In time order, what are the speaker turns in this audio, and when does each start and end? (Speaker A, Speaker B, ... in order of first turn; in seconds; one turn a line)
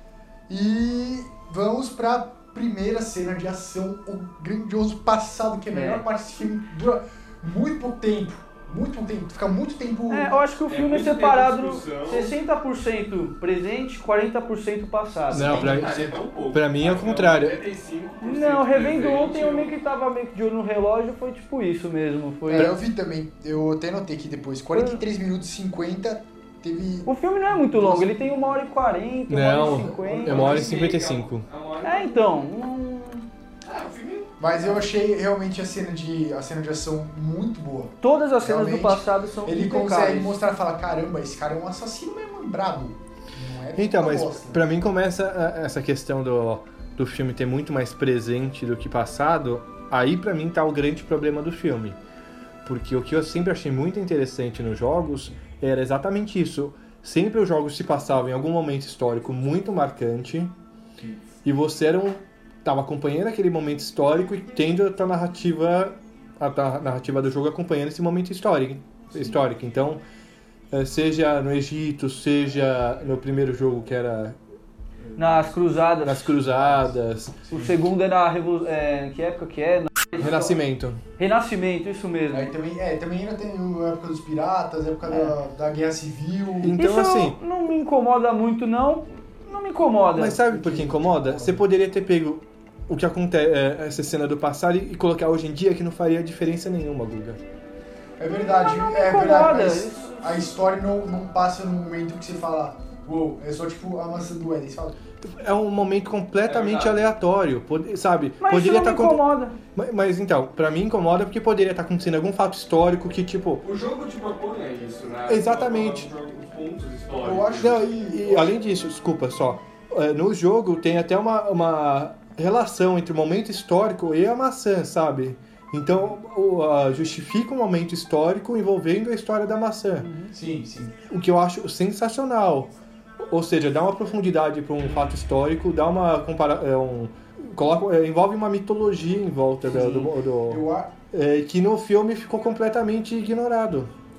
Speaker A: 0.5-10.5
Speaker B: 5.7-6.0
Speaker B: 10.1-15.6
Speaker C: 10.7-12.3
Speaker D: 15.3-17.6
Speaker A: 15.3-16.2
Speaker C: 15.4-19.7
Speaker B: 18.2-22.7
Speaker A: 22.5-28.3
Speaker B: 24.7-25.0
Speaker B: 27.1-30.7
Speaker D: 29.3-31.4
Speaker A: 29.6-30.7
Speaker C: 30.3-32.3
Speaker B: 31.8-33.2
Speaker C: 33.6-34.8
Speaker A: 34.4-44.6
Speaker B: 38.0-40.4
Speaker D: 43.7-52.0
Speaker D: 52.6-60.5
Speaker D: 61.4-70.0
Speaker D: 70.7-74.4
Speaker A: 75.1-75.5
Speaker B: 75.2-76.4
Speaker D: 76.0-77.7
Speaker A: 76.4-76.9
Speaker A: 77.5-77.8
Speaker B: 77.5-80.6
Speaker D: 80.2-81.0
Speaker B: 81.2-82.5
Speaker A: 82.3-86.8
Speaker B: 85.0-85.3
Speaker D: 86.6-87.4
Speaker B: 86.7-90.4
Speaker D: 90.1-97.4
Speaker A: 90.4-91.6
Speaker A: 98.2-105.0
Speaker B: 98.5-100.4
Speaker D: 105.2-109.2
Speaker C: 106.5-107.0
Speaker B: 108.4-109.5
Speaker D: 109.7-113.6
Speaker C: 113.6-117.8
Speaker D: 115.3-116.1
Speaker A: 117.2-118.5
Speaker D: 117.6-130.1
Speaker B: 130.0-130.3
Speaker A: 130.3-131.0
Speaker D: 131.1-132.7
Speaker D: 133.3-143.9
Speaker A: 139.7-140.9